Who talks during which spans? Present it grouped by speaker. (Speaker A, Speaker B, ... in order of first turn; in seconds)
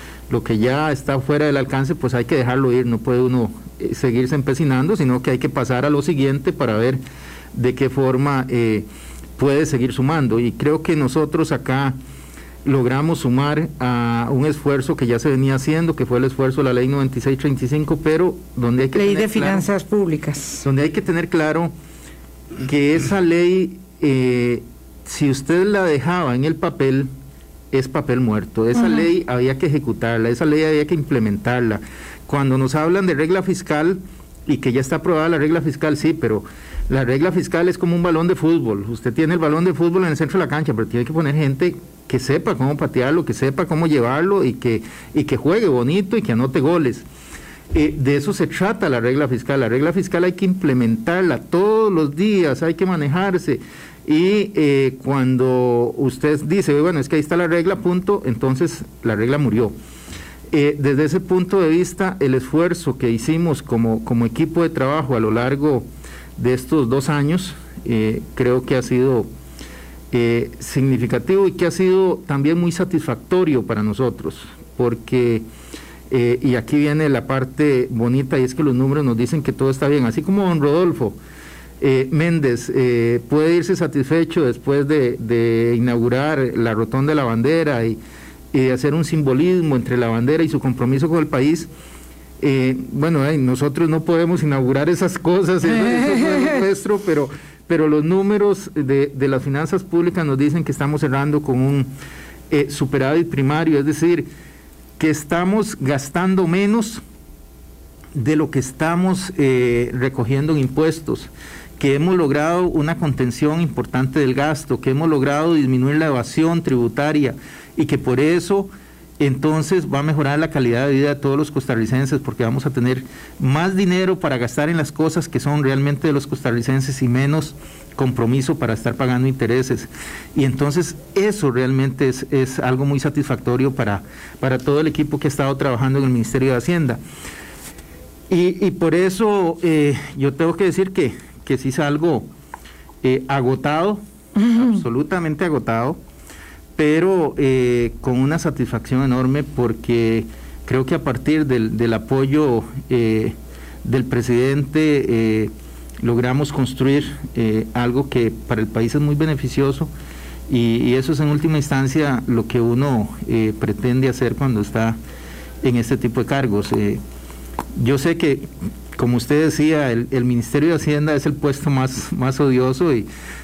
Speaker A: 0.3-7.0, 7.5-8.8, 9.4-11.9, 12.6-19.6, 20.6-21.7, 22.6-27.1, 27.7-47.0, 47.7-59.7, 60.5-65.8, 66.4-69.3, 70.1-75.4, 76.1-81.2, 81.8-88.0, 88.5-91.7, 92.4-101.9, 102.5-104.3, 105.0-107.0, 108.1-137.0, 138.3-142.3, 143.0-146.0, 146.8-155.5, 156.0-159.9, 160.5-165.0, 165.6-167.0, 167.8-173.1
Speaker B: 18.9-20.6, 28.8-29.0, 96.2-96.5, 144.4-144.8